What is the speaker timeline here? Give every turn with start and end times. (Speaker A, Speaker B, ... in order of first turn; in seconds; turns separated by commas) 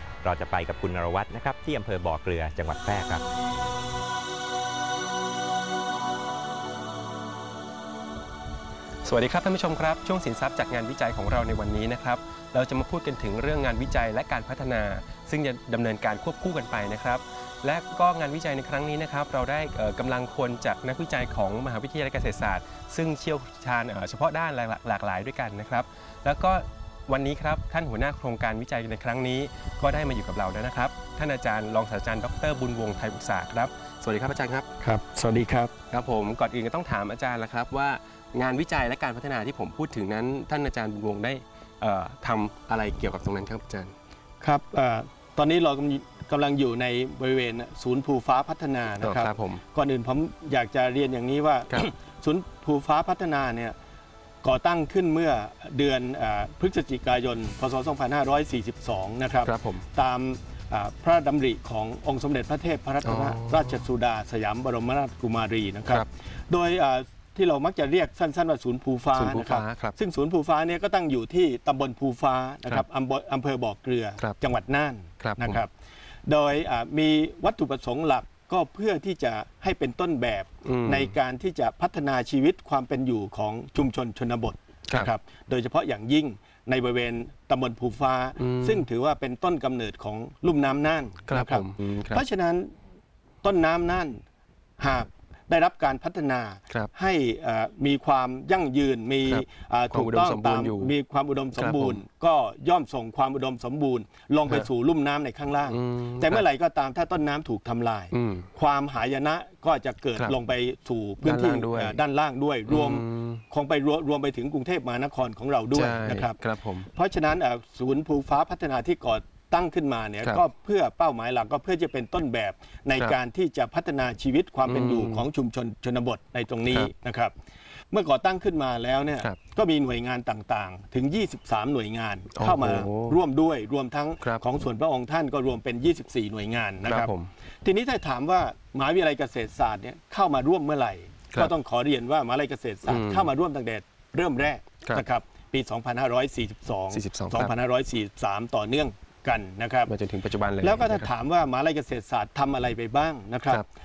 Speaker A: 0.2-3.2, Speaker B: 9.0-34.7, Speaker C: 34.8-35.7, Speaker B: 35.9-43.9, Speaker C: 44.4-53.8, Speaker B: 49.0-49.6, Speaker C: 54.4-75.7, Speaker B: 59.4-59.8, Speaker B: 63.0-63.8, Speaker B: 69.1-69.9, Speaker B: 75.2-75.6, Speaker C: 76.2-92.7, Speaker B: 80.6-81.1, Speaker B: 88.4-88.8, Speaker B: 91.3-92.2, Speaker C: 93.4-94.2, Speaker C: 94.8-127.3, Speaker B: 99.2-100.9, Speaker B: 101.6-102.0, Speaker B: 105.7-106.4, Speaker B: 108.1-108.5, Speaker B: 111.2-112.0, Speaker B: 112.7-113.4, Speaker B: 115.7-116.9, Speaker B: 124.7-125.3, Speaker C: 127.9-137.1, Speaker B: 132.3-133.2, Speaker B: 136.8-137.3, Speaker C: 137.6-149.9, Speaker B: 142.9-143.3, Speaker B: 146.9-147.5, Speaker B: 149.9-151.1, Speaker C: 150.6-153.6